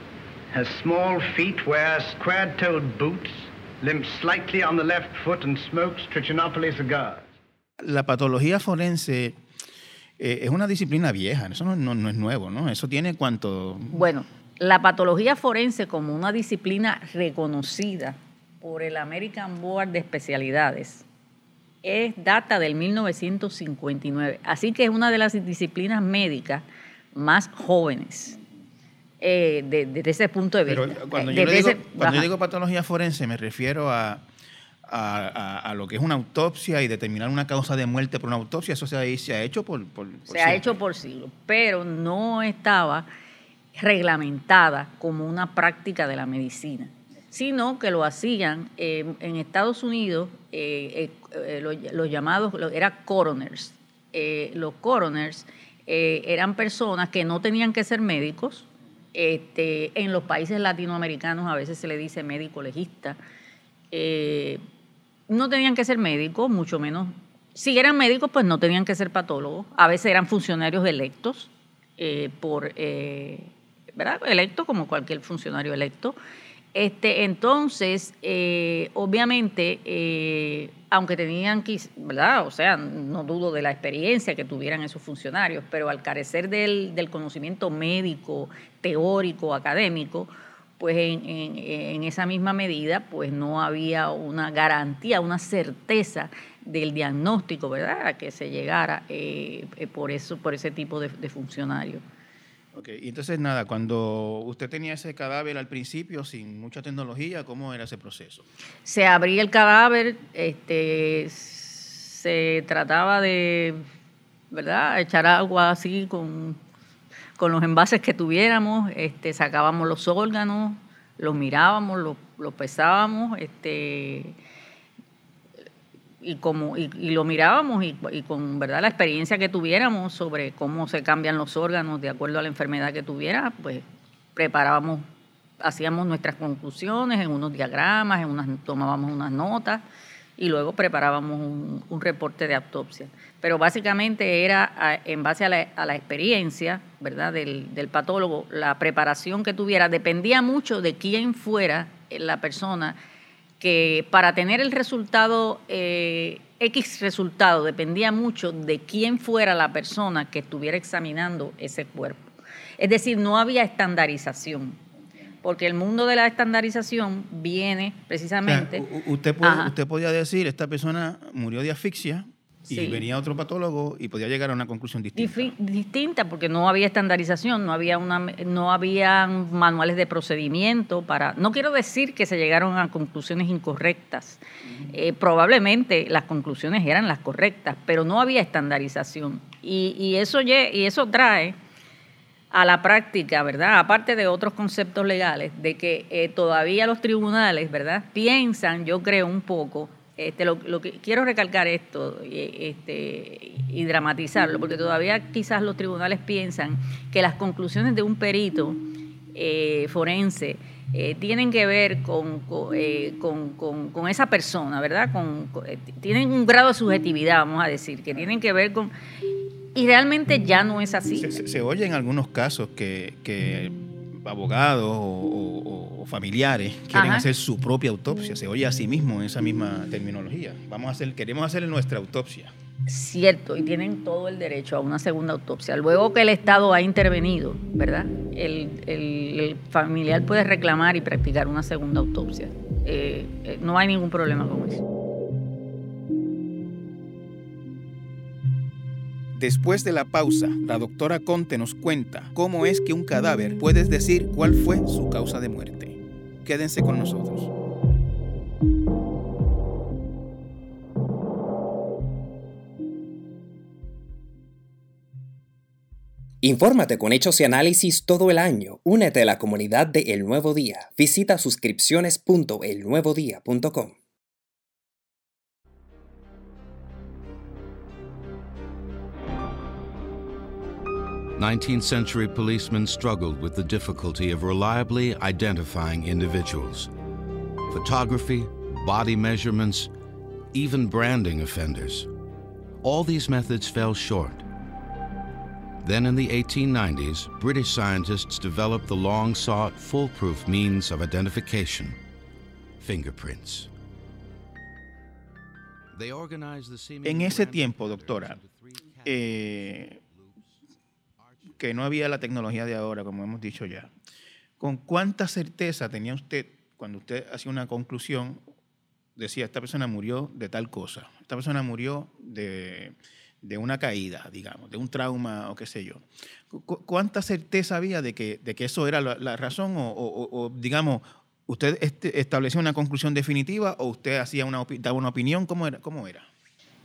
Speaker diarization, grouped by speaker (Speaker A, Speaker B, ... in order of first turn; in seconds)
Speaker A: 0.5-7.3
Speaker B: 7.8-9.4, 10.2-14.0, 30.7-34.2, 34.9-40.8, 102.7-108.5, 168.4-175.5, 221.2-232.5, 249.3-257.5, 307.0-308.4, 309.0-310.0, 311.6-313.9, 314.6-318.4, 319.1-336.3
Speaker C: 13.9-21.0, 21.8-28.4, 29.2-32.3, 40.3-43.1, 43.7-63.2, 63.9-64.6, 65.3-76.2, 76.7-102.0, 108.8-113.8, 114.5-116.6, 117.4-124.4, 126.2-135.0, 135.6-139.8, 140.4-153.0, 153.6-162.3, 162.8-164.8, 165.4-168.8, 169.4-169.7, 172.7-173.0, 175.2-191.6, 192.5-208.8, 209.3-218.9, 219.7-221.3, 226.9-227.3, 232.9-244.8
Speaker D: 266.4-274.0
Speaker E: 281.4-286.9, 287.7-289.9, 290.5-292.1, 292.8-294.4, 295.8-302.0, 302.8-303.7, 305.9-309.5, 310.0-310.4, 311.2-311.5